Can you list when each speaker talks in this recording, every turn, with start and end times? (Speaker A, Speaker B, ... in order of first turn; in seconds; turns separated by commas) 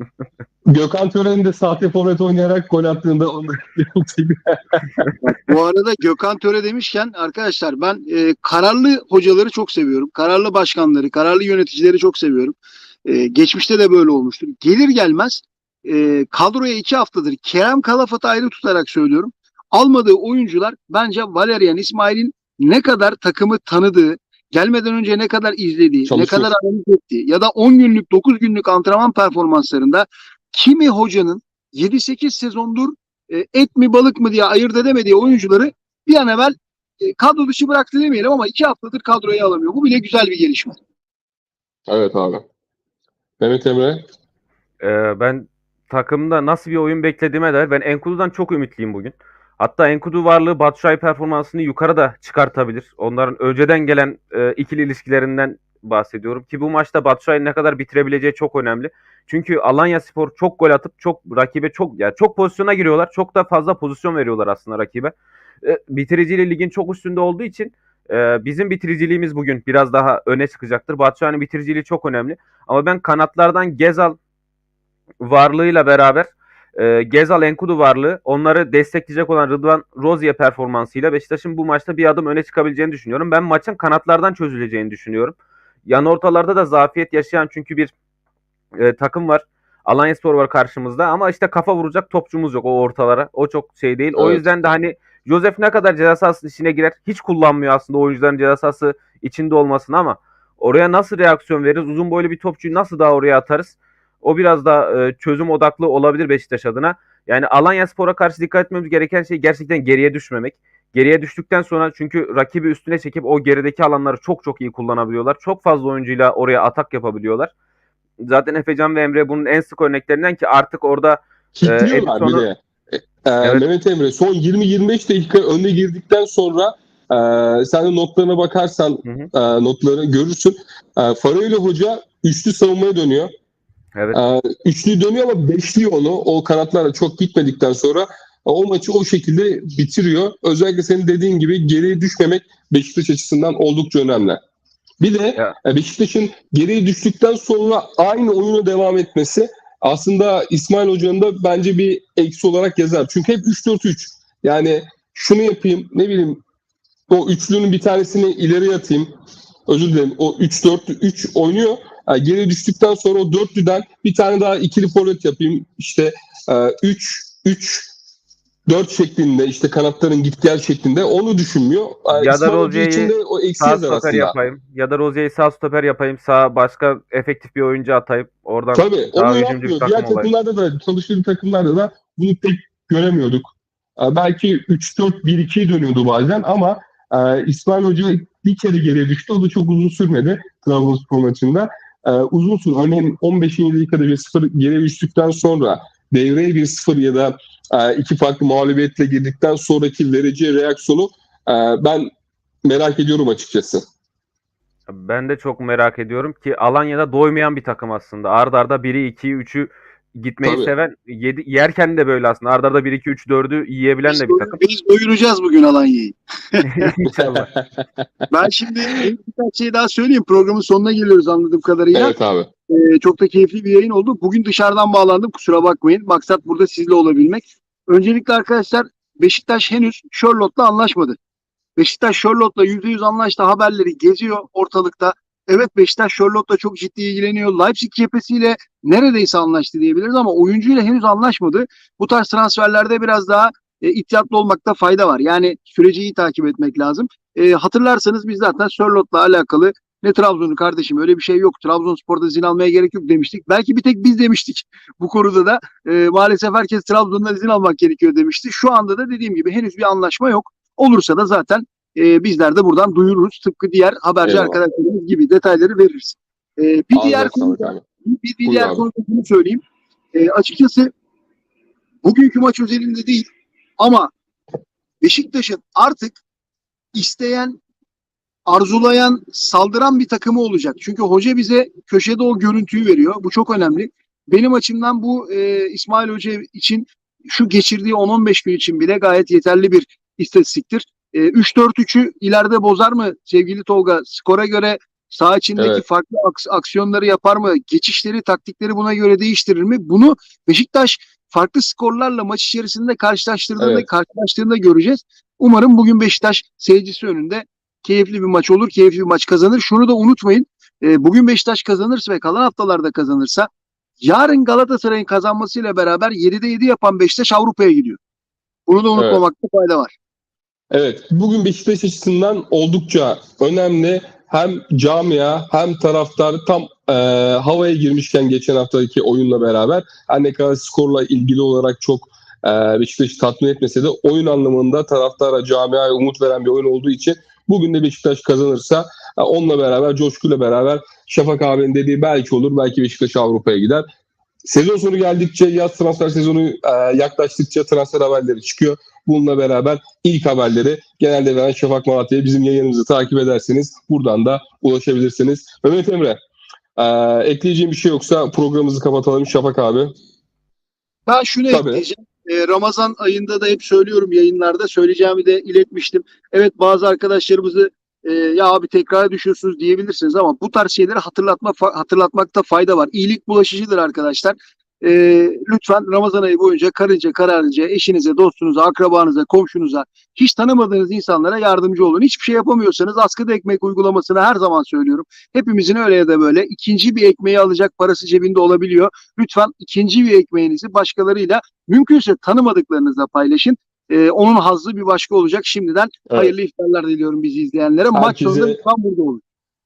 Speaker A: 0.7-5.0, Speaker B: 5.2-40.8, Speaker A: 26.1-26.5, Speaker A: 41.9-42.4, Speaker A: 43.4-44.0, Speaker C: 44.8-74.2, Speaker C: 75.2-85.3, Speaker C: 85.9-87.9, Speaker C: 88.8-117.5, Speaker A: 94.2-94.4, Speaker C: 118.2-122.5, Speaker A: 121.6-133.3, Speaker C: 129.1-129.3, Speaker A: 134.1-144.4, Speaker A: 145.0-156.4, Speaker A: 157.1-159.1, Speaker A: 159.7-167.9, Speaker A: 168.7-174.3, Speaker C: 172.1-180.3, Speaker A: 178.7-202.1, Speaker A: 202.7-203.8, Speaker C: 204.9-214.6, Speaker A: 210.4-210.7, Speaker B: 214.1-216.9, Speaker C: 216.6-217.5, Speaker A: 217.1-217.8, Speaker B: 218.3-222.2, Speaker A: 221.9-222.5, Speaker B: 222.7-231.2, Speaker B: 231.8-269.6, Speaker A: 264.2-264.6, Speaker A: 266.9-267.8, Speaker A: 268.4-268.9, Speaker B: 270.1-270.9, Speaker B: 272.0-273.3, Speaker B: 273.8-274.1, Speaker B: 275.0-276.2, Speaker B: 276.9-277.6, Speaker B: 278.5-313.5, Speaker A: 295.6-295.8, Speaker A: 303.6-303.9, Speaker B: 314.0-318.0, Speaker B: 318.7-319.9, Speaker A: 319.0-319.2, Speaker A: 320.7-343.9, Speaker A: 344.4-356.2, Speaker A: 356.8-359.9, Speaker B: 361.1-399.2, Speaker A: 361.5-361.9, Speaker A: 397.9-398.6